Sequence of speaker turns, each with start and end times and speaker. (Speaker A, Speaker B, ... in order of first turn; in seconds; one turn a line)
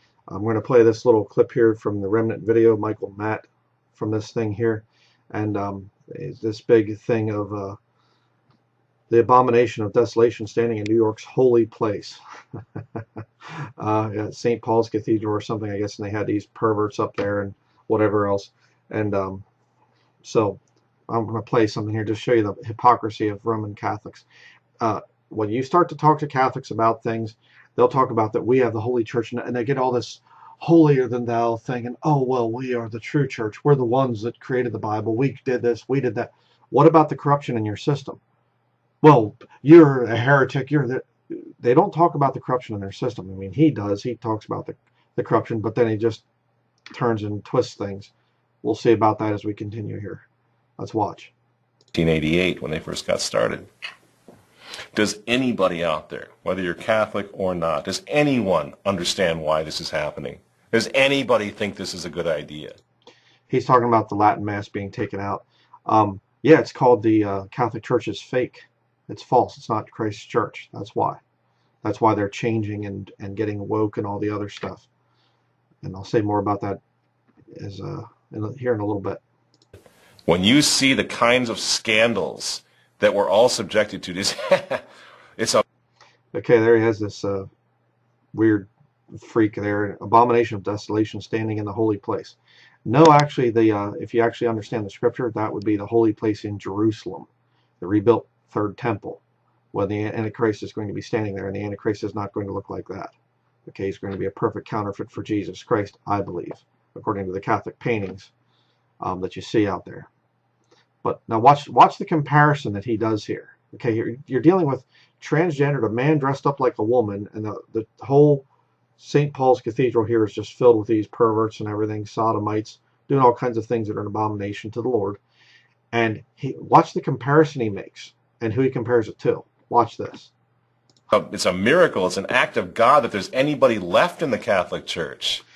Speaker A: 0.3-7.8
Speaker A: 9.1-12.2
Speaker A: 12.8-13.0
Speaker A: 13.6-19.4
Speaker A: 20.2-24.2
Speaker A: 24.8-38.2
Speaker A: 39.0-46.2
Speaker A: 46.9-48.1
Speaker A: 48.6-50.2
Speaker A: 50.8-51.3
Speaker B: 51.9-53.7
Speaker B: 54.9-62.8
Speaker A: 63.5-71.2
Speaker A: 71.8-74.9
Speaker A: 75.8-76.8
Speaker A: 77.5-79.2
Speaker B: 80.3-84.8
Speaker B: 85.4-85.6
Speaker A: 86.3-87.5
Speaker A: 88.3-97.3
Speaker A: 97.8-99.2
Speaker A: 99.7-103.1
Speaker A: 103.7-108.3
Speaker A: 109.0-110.1
Speaker A: 111.0-118.5
Speaker A: 119.0-125.2
Speaker A: 125.9-130.3
Speaker B: 131.1-135.4